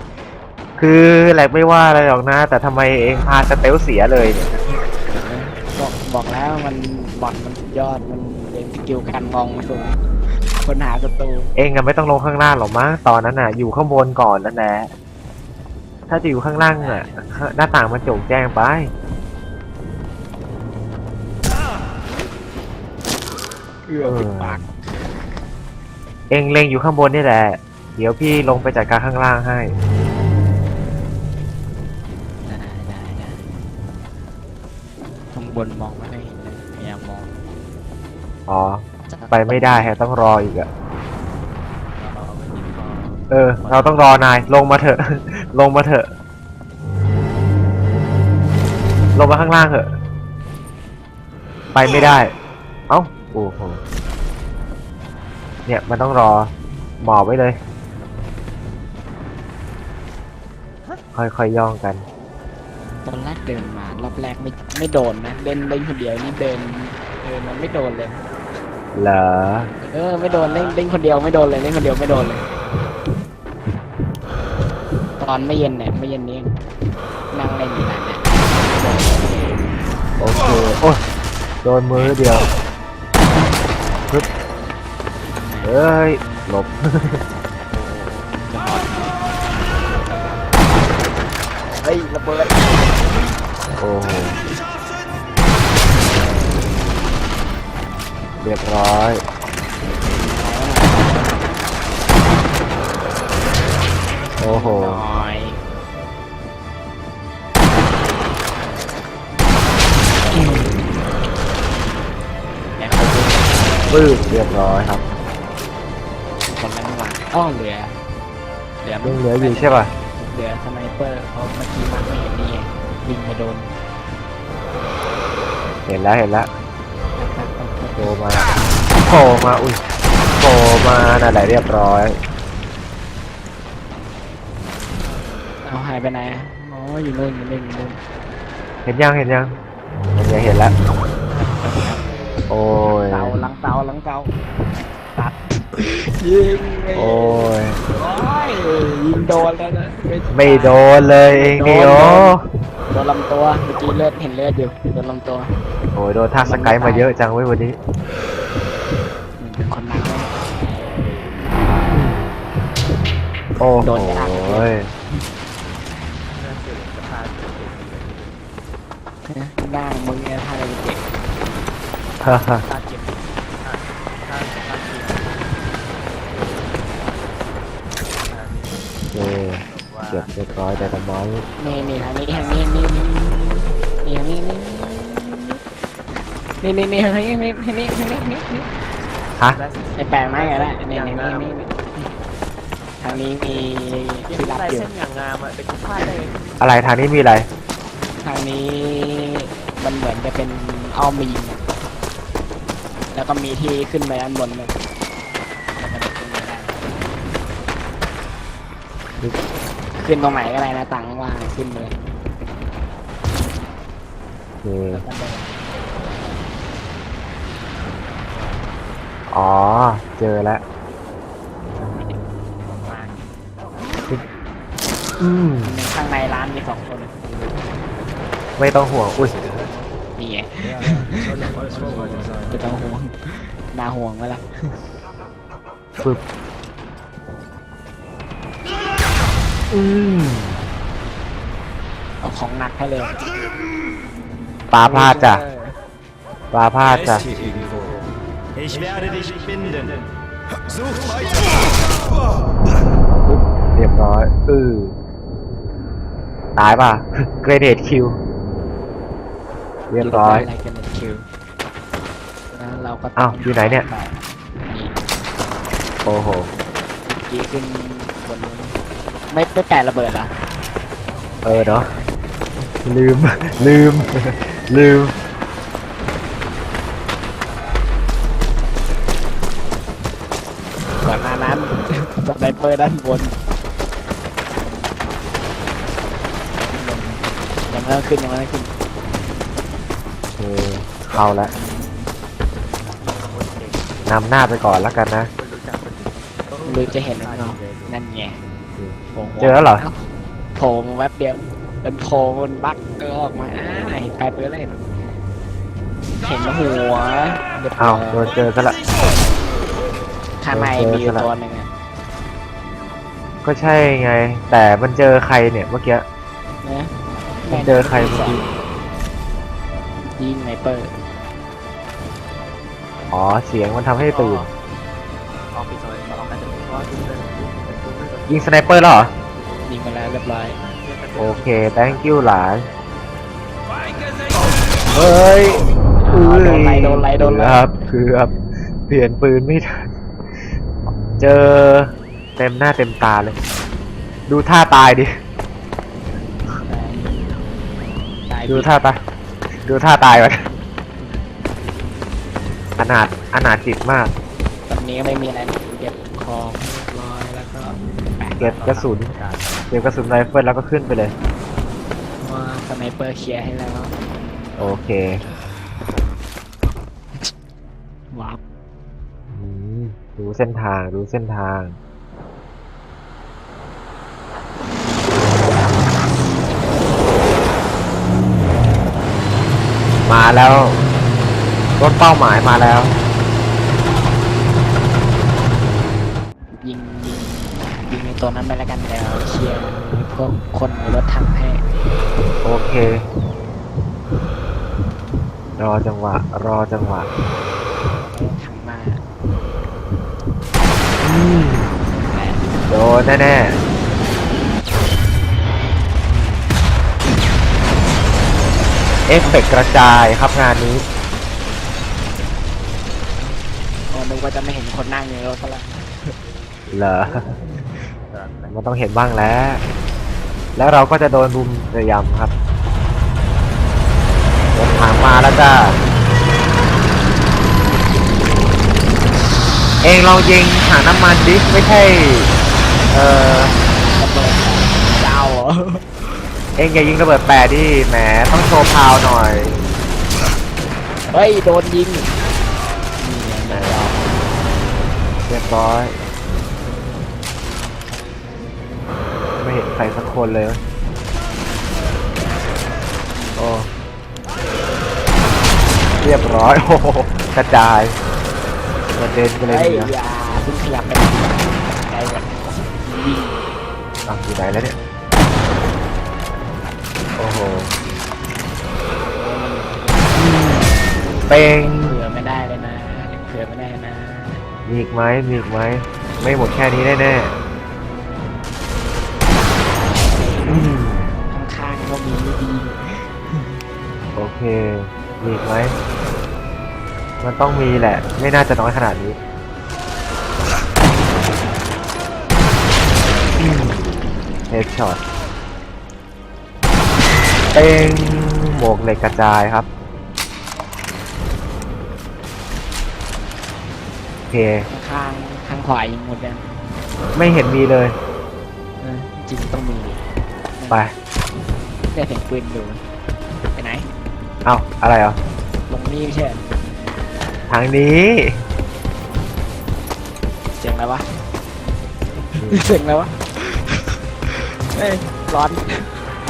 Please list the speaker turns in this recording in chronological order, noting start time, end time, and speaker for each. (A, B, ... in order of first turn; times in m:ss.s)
0:00.8-0:04.7 A
0:05.1-0:10.0 B
0:10.6-0:11.5 B
0:11.6-0:14.9 A
0:16.1-0:18.9 A
0:16.8-0:17.5 B
0:23.9-0:24.7 B
0:24.0-0:24.6 A
0:26.3-0:29.7 A
0:32.5-0:33.4 B
0:35.3-0:37.4 B
0:38.5-0:40.7 A
0:39.1-0:40.0 B
0:42.0-0:44.0 C
0:43.3-0:46.1 A
0:49.2-0:50.0 A
0:51.8-0:52.3 A
0:52.9-0:53.8 A
0:55.7-0:57.6 A
1:01.2-1:02.0 A
1:03.0-1:08.2 B
1:08.9-1:09.7 A
1:09.8-1:12.5 B
1:10.2-1:10.8 C
1:15.2-1:16.6 B
1:17.3-1:19.6 B
1:20.2-1:21.0 A
1:21.6-1:22.5 A
1:25.6-1:27.2 A
1:27.7-1:29.2 B
1:31.8-1:33.0 B
1:33.8-1:34.4 A
1:38.4-1:39.2 A
1:40.2-1:41.5 B
1:44.4-1:45.0 A
1:44.5-1:45.6 B
1:50.3-1:50.7 B
1:50.4-1:50.8 A
1:52.8-1:53.8 B
1:53.9-1:55.0 A
1:56.5-1:58.0 B
1:58.8-2:03.8 B
1:59.0-1:59.9 A
2:05.9-2:06.5 A
2:07.2-2:08.1 B
2:08.0-2:09.8 A
2:10.4-2:12.2 A
2:15.6-2:18.0 B
2:18.8-2:19.6 A
2:20.1-2:20.7 A
2:21.6-2:22.0 B
2:22.5-2:23.4 A
2:23.1-2:24.3 B
2:25.2-2:32.4 B
2:27.0-2:27.8 A
2:30.3-2:32.4 A
2:32.9-2:35.5 B
2:36.0-2:37.8 A
2:36.4-2:37.1 B
2:39.4-2:40.3 B
2:40.7-2:41.5 C
2:41.9-2:42.3 A
2:43.6-2:44.9 A
2:43.8-2:44.8 B
2:46.4-2:48.4 C
2:49.3-2:51.0 B
2:52.2-2:52.6 A
2:52.6-2:55.6 C
2:58.1-2:58.9 C
2:59.1-3:01.4 A
2:59.5-3:02.6 C
3:01.6-3:05.6 B
3:06.6-3:08.7 B
3:09.5-3:11.8 C
3:10.0-3:12.1 B
3:13.0-3:14.9 B
3:14.3-3:16.4 C
3:16.6-3:17.5 A
3:18.2-3:21.6 B
3:23.1-3:24.7 B
3:25.8-3:27.0 B
3:30.0-3:32.0 B
3:34.6-3:35.0 A
3:34.9-3:35.6 B
3:39.3-3:40.6 A
3:42.8-3:43.3 C
3:45.2-3:45.7 A
3:45.6-3:47.2 B
3:48.6-3:49.6 A
3:50.2-3:51.4 B
3:52.5-3:54.8 B
3:59.7-4:00.6 A
4:02.2-4:03.2 B
4:04.7-4:05.4 A
4:04.8-4:05.8 B
4:06.5-4:07.3 A
4:13.2-4:15.0 A
4:16.6-4:18.2 A
4:19.9-4:20.5 A
4:20.0-4:21.3 B
4:22.5-4:25.2 B
4:23.2-4:23.9 A
4:26.0-4:26.5 A
4:27.1-4:28.8 B
4:29.3-4:30.4 B
4:31.4-4:31.9 A
4:31.5-4:32.1 B
4:32.8-4:35.1 A
4:41.0-4:43.4 B
4:46.7-4:48.7 B
4:50.4-4:51.5 A
4:53.1-4:54.0 C
4:54.1-4:55.3 A
4:55.3-4:58.0 C
4:56.7-4:58.4 B
4:58.8-4:59.8 A
4:59.2-5:00.0 B
5:00.6-5:04.8 B
5:06.2-5:08.4 B
5:07.8-5:08.8 A
5:10.4-5:11.7 B
5:10.5-5:11.3 A
5:13.4-5:16.0 A
5:16.6-5:16.9 B
5:17.4-5:18.5 B
5:17.5-5:18.4 A
5:20.1-5:20.9 B
5:23.1-5:24.5 A
5:24.0-5:24.5 C
5:25.5-5:28.5 C
5:28.3-5:29.1 A
5:29.7-5:30.6 B
5:30.6-5:32.3 C
5:31.2-5:32.7 A
5:34.9-5:38.3 A
5:36.0-5:37.8 B
5:38.9-5:39.9 A
5:41.2-5:43.4 A
5:44.3-5:45.1 A
5:46.7-5:47.3 B
5:48.2-5:48.7 B
5:48.5-5:49.0 A
5:49.7-5:50.5 A
5:52.8-5:54.1 A
5:54.7-5:58.6 B
5:58.4-5:59.1 A
5:58.5-5:59.5 C
5:59.7-6:01.1 A
6:02.2-6:03.9 B
6:04.6-6:05.2 A
6:08.1-6:08.4 B
6:09.3-6:11.8 A
6:20.1-6:20.8 A
6:21.8-6:23.0 A
6:26.6-6:31.6 B
6:32.4-6:33.0 A
6:35.6-6:37.1 A
6:38.0-6:39.0 B
6:41.0-6:41.7 A
6:41.9-6:42.5 B
6:42.7-6:43.6 A
6:46.1-6:46.5 A
6:49.1-6:50.8 A
6:53.9-6:56.1 B
6:56.7-6:57.2 A
6:58.1-6:58.5 C
6:58.5-6:59.6 A
7:00.6-7:02.3 A
7:04.5-7:05.8 A
7:09.8-7:12.3 A
7:12.9-7:13.6 A
7:14.0-7:15.8 B
7:16.6-7:19.6 A
7:21.1-7:22.1 B
7:23.0-7:24.2 B
7:23.5-7:23.9 A
7:25.3-7:26.0 A
7:29.4-7:30.6 A
7:33.2-7:33.4 B
7:33.4-7:33.7 A
7:36.0-7:38.0 A
7:39.0-7:39.9 A
7:39.5-7:43.4 B
7:44.1-7:44.8 A
7:47.2-7:47.7 A
7:49.2-7:50.6 B
7:50.1-7:52.0 A
7:51.3-7:54.2 B
7:54.7-7:57.3 A
7:59.3-8:00.7 B
8:00.5-8:01.2 A
8:01.3-8:03.6 B
8:04.2-8:05.8 A
8:07.2-8:09.2 A
8:13.4-8:13.9 A
8:14.5-8:15.0 A
8:17.5-8:19.7 A
8:24.3-8:24.6 A
8:24.7-8:26.5 B
8:27.1-8:28.0 A
8:28.8-8:30.0 B
8:30.6-8:30.8 B
8:31.9-8:32.8 B
8:33.6-8:33.9 B
8:34.4-8:35.2 A
8:35.7-8:36.4 B
8:37.5-8:38.4 A
8:40.5-8:41.1 B
8:42.4-8:42.7 A
8:42.5-8:46.0 B